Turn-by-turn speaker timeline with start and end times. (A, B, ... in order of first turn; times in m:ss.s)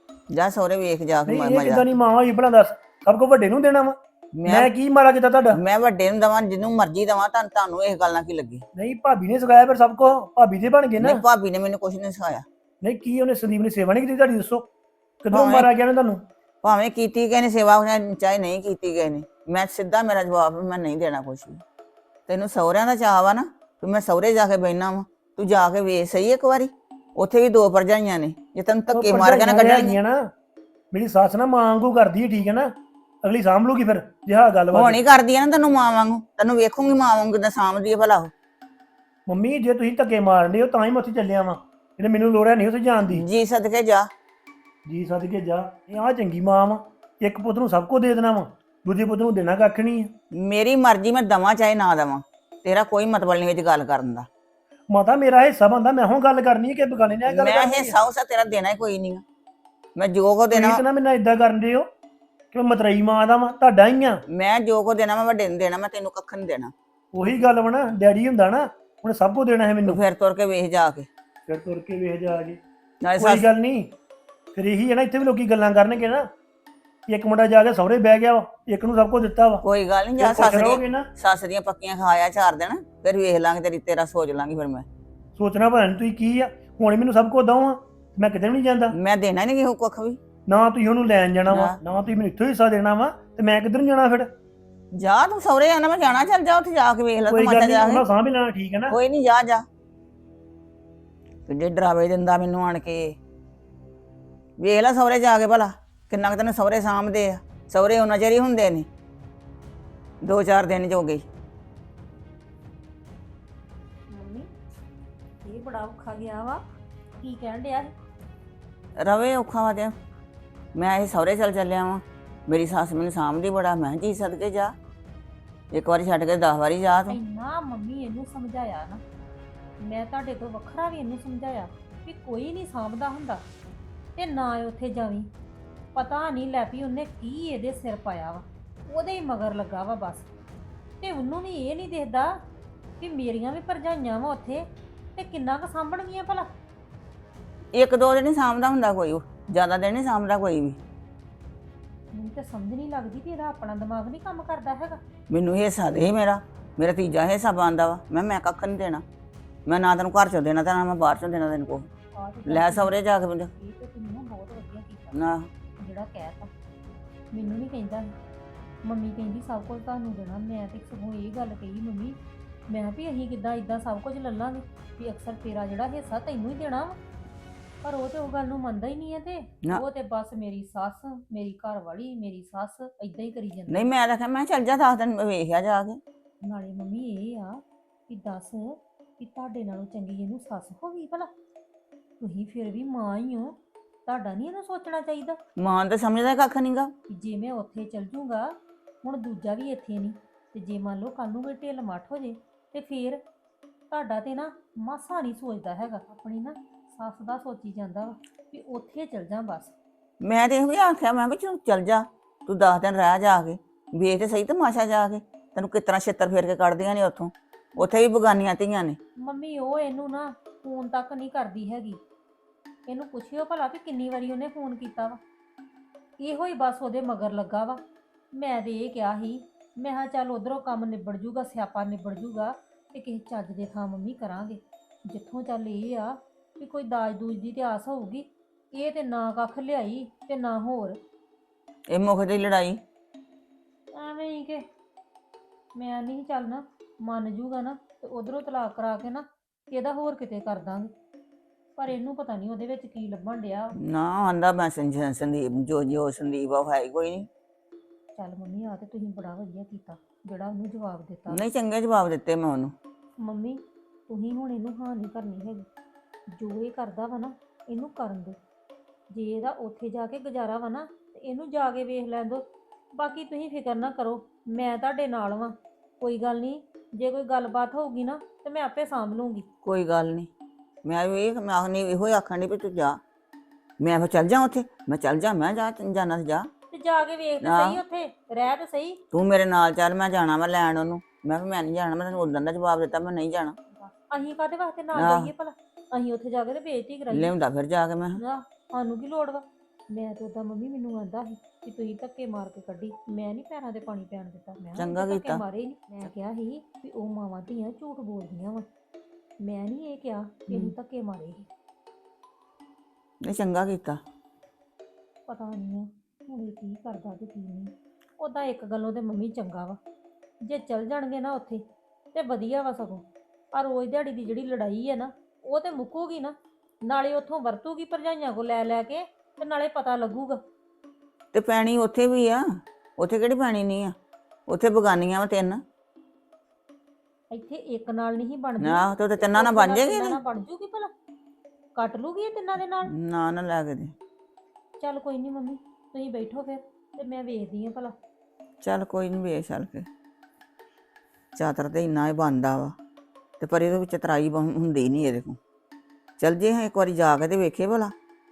0:00.3-0:01.9 A
0:01.2-0:05.6 B
0:04.3-0:04.7 A
0:05.5-0:08.6 A
0:08.8-0:11.2 B
0:11.0-0:12.4 A
0:12.8-0:14.7 B
0:15.2-0:16.2 B
0:15.3-0:15.7 A
0:16.6-0:21.6 A
0:22.3-0:30.0 A
0:28.9-0:30.3 B
0:30.9-0:35.0 B
0:34.7-0:38.3 A
0:39.3-0:43.2 B
0:43.1-0:44.1 A
0:44.8-0:50.1 B
0:50.3-0:54.3 A
0:54.9-0:58.0 B
0:57.3-0:59.2 A
1:00.0-1:00.8 A
1:00.5-1:01.9 B
1:02.5-1:04.2 B
1:04.3-1:06.7 A
1:07.1-1:10.0 B
1:09.8-1:11.1 A
1:11.4-1:12.6 B
1:13.0-1:13.5 A
1:13.2-1:13.9 B
1:14.5-1:16.3 B
1:17.1-1:19.6 B
1:19.6-1:24.8 A
1:20.2-1:21.1 B
1:25.4-1:28.9 B
1:28.9-1:30.2 A
1:30.5-1:34.3 B
1:31.5-1:31.8 A
1:34.9-1:38.0 A
1:37.3-1:39.0 B
1:38.9-1:39.6 A
1:41.5-1:43.2 A
1:44.6-1:48.9 A
1:50.2-1:51.2 A
1:54.1-1:54.5 C
1:55.4-1:56.6 C
1:57.2-1:57.9 C
1:59.0-2:00.0 A
2:00.7-2:04.7 A
2:05.7-2:07.2 A
2:07.1-2:09.0 C
2:09.8-2:13.4 C
2:14.2-2:15.3 C
2:15.9-2:20.3 C
2:21.0-2:22.4 C
2:23.0-2:26.5 C
2:27.7-2:30.8 A
2:32.1-2:35.0 C
2:35.3-2:39.0 A
2:39.6-2:41.9 A
2:42.1-2:43.0 C
2:42.4-2:43.5 A
2:43.5-2:46.5 C
2:45.1-2:45.5 A
2:47.3-2:48.2 C
2:48.8-2:57.0 C
2:57.8-3:03.9 C
3:03.7-3:06.0 A
3:06.4-3:11.3 C
3:12.2-3:15.4 C
3:15.6-3:16.9 A
3:17.1-3:23.2 C
3:23.9-3:29.7 C
3:30.2-3:39.0 A
3:39.2-3:42.0 C
3:42.9-3:45.2 C
3:46.2-4:01.0 C
4:01.9-4:02.8 A
4:03.9-4:04.6 C
4:05.7-4:10.9 C
4:11.7-4:13.8 C
4:13.8-4:17.3 A
4:18.2-4:21.4 C
4:21.3-4:22.7 A
4:23.2-4:25.7 C
4:26.3-4:28.4 C
4:29.1-4:39.5 C
4:39.6-4:40.3 A
4:40.8-4:43.0 A
4:43.8-4:46.5 A
4:46.7-4:49.0 C
4:47.4-4:47.8 A
4:49.1-4:53.6 A
4:53.7-4:57.3 C
4:54.9-4:55.3 A
4:57.1-4:58.2 A
4:58.2-5:08.7 C
5:04.8-5:05.4 A
5:09.4-5:11.5 C
5:10.5-5:10.7 A
5:13.2-5:14.0 A
5:15.3-5:19.8 C
5:20.4-5:30.4 C
5:31.3-5:33.9 A
5:34.5-5:35.6 A
5:37.3-5:40.9 C
5:38.6-5:40.2 A
5:41.7-5:42.9 C
5:42.8-5:43.9 A
5:44.8-5:47.9 C
5:48.6-5:49.9 A
5:51.3-5:52.8 A
5:53.4-5:55.4 A
5:56.2-5:57.9 A